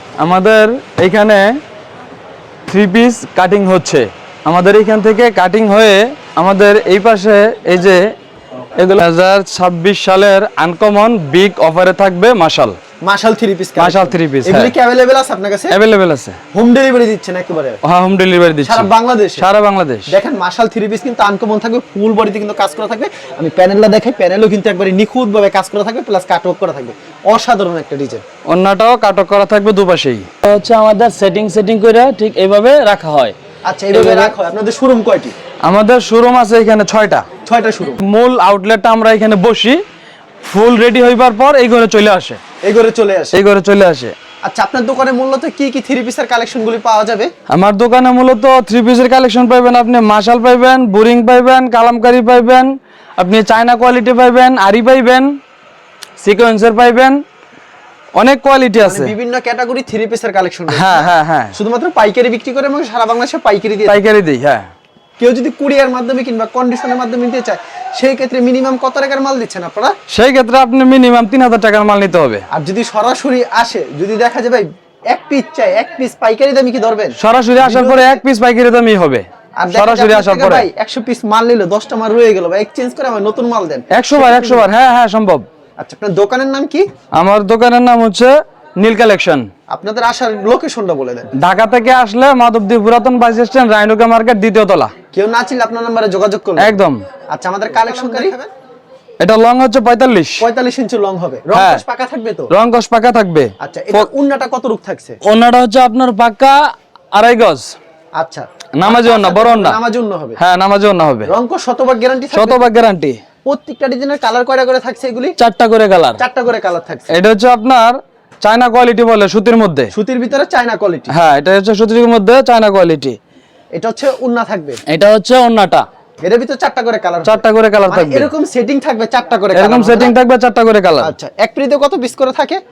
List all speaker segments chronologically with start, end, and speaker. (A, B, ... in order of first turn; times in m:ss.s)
0:00.2-0:01.5 A
0:02.7-0:08.1 A
0:08.8-0:12.8 A
0:13.0-0:15.8 B
0:13.8-0:14.7 A
0:15.7-0:16.4 A
0:16.5-0:17.8 B
0:17.8-0:20.1 A
0:18.6-0:19.4 B
0:20.1-0:28.2 B
0:28.5-0:33.4 A
0:33.7-0:35.4 B
0:33.9-0:34.3 A
0:35.6-0:37.3 A
0:37.4-0:38.0 B
0:38.0-0:39.8 A
0:40.4-0:42.4 A
0:42.6-0:43.4 B
0:43.3-0:44.1 A
0:44.4-0:47.3 B
0:47.5-0:55.3 A
0:56.2-0:57.2 A
0:58.2-0:59.1 A
0:58.8-1:04.0 B
1:00.7-1:01.6 A
1:03.9-1:04.7 A
1:05.2-1:10.0 B
1:10.1-1:12.4 A
1:12.5-1:18.2 B
1:17.2-1:20.7 A
1:19.6-1:24.7 B
1:23.9-1:25.5 A
1:25.8-1:26.9 B
1:27.1-1:29.5 A
1:29.7-1:31.3 B
1:31.4-1:34.9 A
1:35.1-1:36.8 B
1:36.6-1:37.0 A
1:37.3-1:38.5 B
1:39.2-1:40.4 A
1:40.4-1:42.5 B
1:41.5-1:41.8 A
1:42.5-1:44.1 A
1:43.6-1:45.2 B
1:45.2-1:47.7 A
1:48.2-1:50.4 B
1:48.8-1:49.8 A
1:50.4-1:51.3 A
1:51.3-1:52.7 B
1:52.3-1:53.2 A
1:53.5-1:55.4 B
1:55.4-1:56.2 A
1:56.2-1:57.1 B
1:57.1-1:59.9 A
1:59.9-2:01.1 B
2:01.1-2:03.2 A
2:03.7-2:04.8 B
2:04.9-2:05.8 A
2:06.2-2:10.2 B
2:07.2-2:08.3 A
2:09.5-2:11.1 A
2:11.0-2:12.6 B